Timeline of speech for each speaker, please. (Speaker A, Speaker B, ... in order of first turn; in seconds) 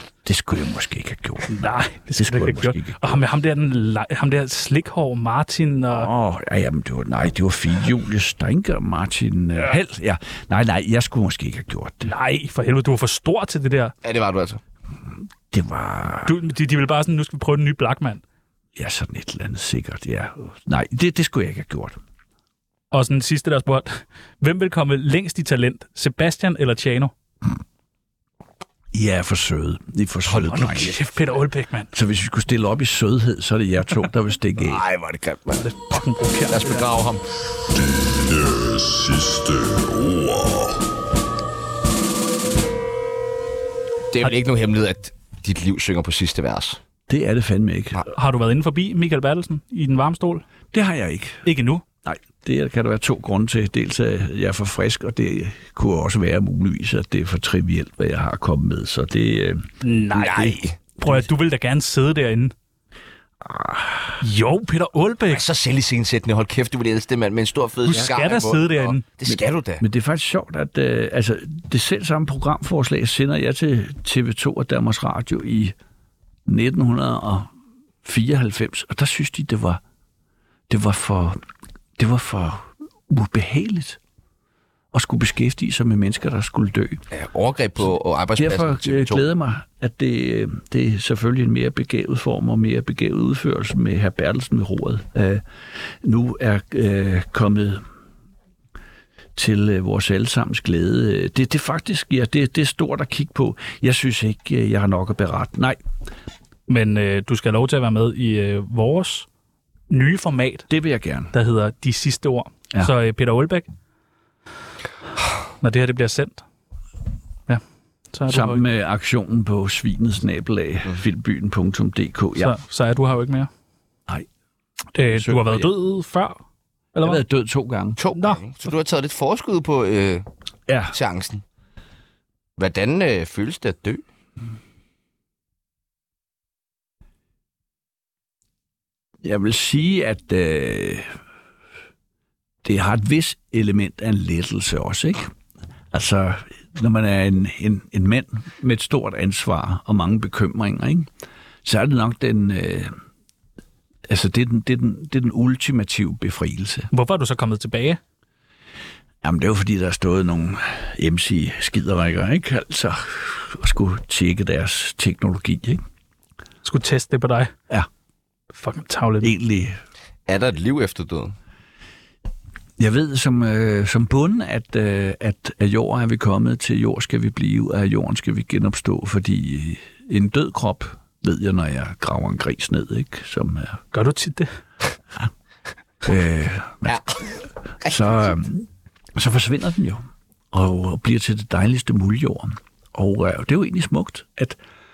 Speaker A: 0.2-3.2, 5.9-12.1, 15.5-16.3, 18.7-22.0, 28.9-30.9, 31.9-34.8, 47.1-48.0, 50.7-51.5, 52.0-59.7, 63.4-64.2, 69.3-75.8, 76.5-77.5, 78.0-79.8, 80.7-81.4, 82.0-84.0, 84.9-87.0, 88.4-95.4, 96.0-97.8, 99.3-105.8, 110.7-111.3, 118.3-122.5, 124.9-125.7, 127.0-128.0, 130.7-130.9, 139.2-141.1, 142.6-145.3, 145.9-151.1, 151.6-152.9, 154.1-156.9, 159.2-165.8, 169.2-169.8, 172.8-183.8, 186.0-187.0, 187.8-194.6
Speaker B: 1.5-6.1, 12.0-13.9, 16.2-18.2, 22.9-27.1, 30.5-31.9, 35.6-36.9, 48.1-50.4, 51.4-51.8, 59.8-62.5, 64.2-65.4, 67.8-69.0, 106.7-109.3, 109.9-110.7, 111.3-113.7, 115.6-116.4, 117.5-118.6, 122.4-123.5, 124.9-126.4, 126.9-127.2, 128.1-128.4, 156.9-158.0, 166.6-167.5, 168.5-169.3, 183.9-184.5
Speaker C: 14.0-14.6, 30.3-30.9, 34.6-35.7, 36.5-37.2, 39.2-40.6, 44.1-46.8, 60.1-60.8, 65.3-69.8, 87.1-89.2, 128.0-130.3, 130.9-131.4, 132.6-134.0, 170.3-171.3, 186.8-188.0